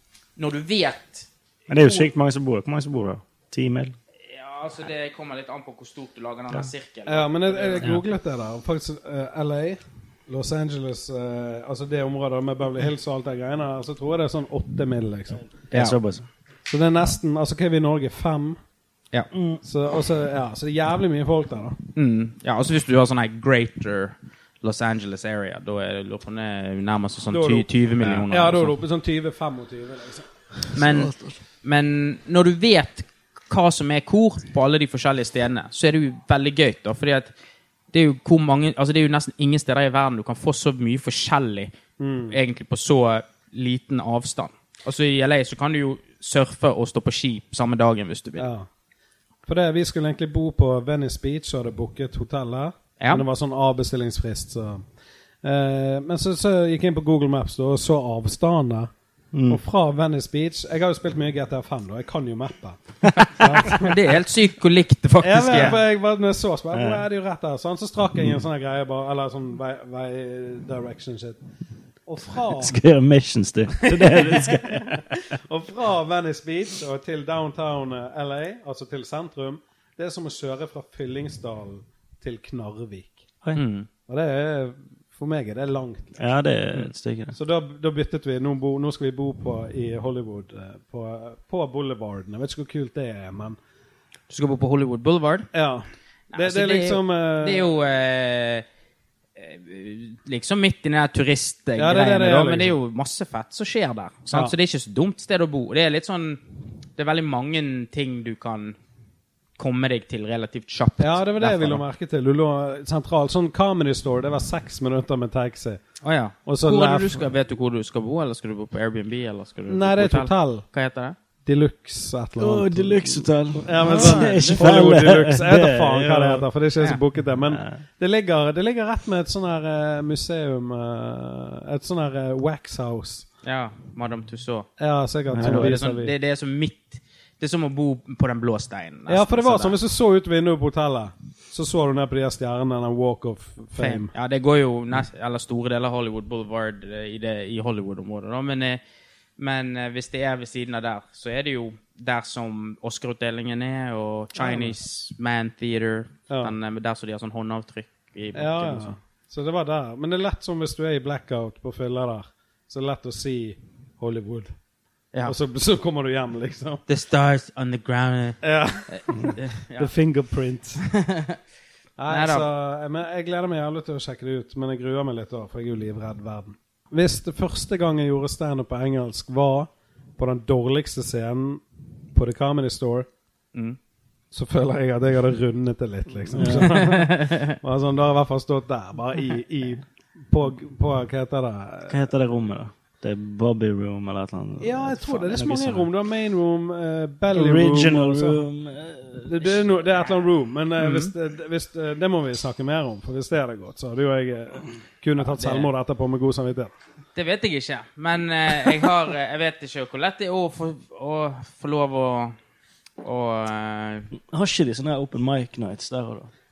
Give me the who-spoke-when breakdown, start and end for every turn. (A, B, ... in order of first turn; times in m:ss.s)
0:00.4-0:02.1 A
0:01.7-0:04.0 B
0:04.2-0:07.9 A
0:07.0-0:15.4 C
0:15.7-0:16.2 B
0:16.7-0:18.6 C
0:19.3-0:19.6 B
0:19.6-0:21.8 C
0:21.9-0:28.8 A
0:27.3-0:30.3 C
0:30.7-0:37.3 A
0:37.9-0:41.7 A
0:42.0-0:42.4 C
0:42.3-0:48.5 A
0:48.4-0:48.7 C
0:49.4-0:54.8 C
0:53.0-0:53.2 A
0:55.4-0:58.9 C
0:59.3-0:59.6 B
0:59.5-1:03.9 C
1:03.8-1:05.8 A
1:05.2-1:11.4 C
1:06.7-1:07.0 B
1:12.1-1:12.8 C
1:12.5-1:15.2 B
1:13.9-1:23.2 C
1:23.5-1:23.9 A
1:24.1-1:26.2 C
1:26.2-1:27.4 B
1:27.3-1:33.6 C
1:34.3-1:35.5 A
1:35.5-1:37.7 C
1:36.3-1:38.6 A
1:39.4-1:46.4 A
1:41.8-1:42.8 C
1:47.0-1:48.8 A
1:49.6-1:51.8 A
1:51.0-1:55.8 C
1:56.0-2:01.1 A
1:56.4-1:57.3 C
1:59.7-2:00.6 C
2:01.4-2:13.3 C
2:02.4-2:06.4 B
2:03.8-2:04.6 A
2:07.5-2:07.8 B
2:13.4-2:14.7 A
2:14.8-2:16.1 C
2:15.3-2:15.7 B
2:15.4-2:19.8 A
2:19.1-2:24.1 C
2:23.8-2:28.8 A
2:29.4-2:39.0 A
2:34.4-2:34.8 C
2:36.3-2:36.5 C
2:38.3-2:44.5 C
2:45.2-2:46.8 C
2:46.9-2:49.9 A
2:48.4-2:50.8 C
2:50.9-2:51.4 A
2:52.0-3:01.6 C
2:52.1-2:52.5 A
3:02.1-3:03.1 C
3:04.3-3:12.0 C
3:06.3-3:06.8 B
3:06.6-3:07.6 A
3:11.9-3:15.9 B
3:14.6-3:18.4 C
3:17.3-3:19.4 B
3:19.2-3:26.7 C
3:25.2-3:25.7 A
3:27.1-3:32.4 A
3:33.0-3:34.1 A
3:34.3-3:36.3 B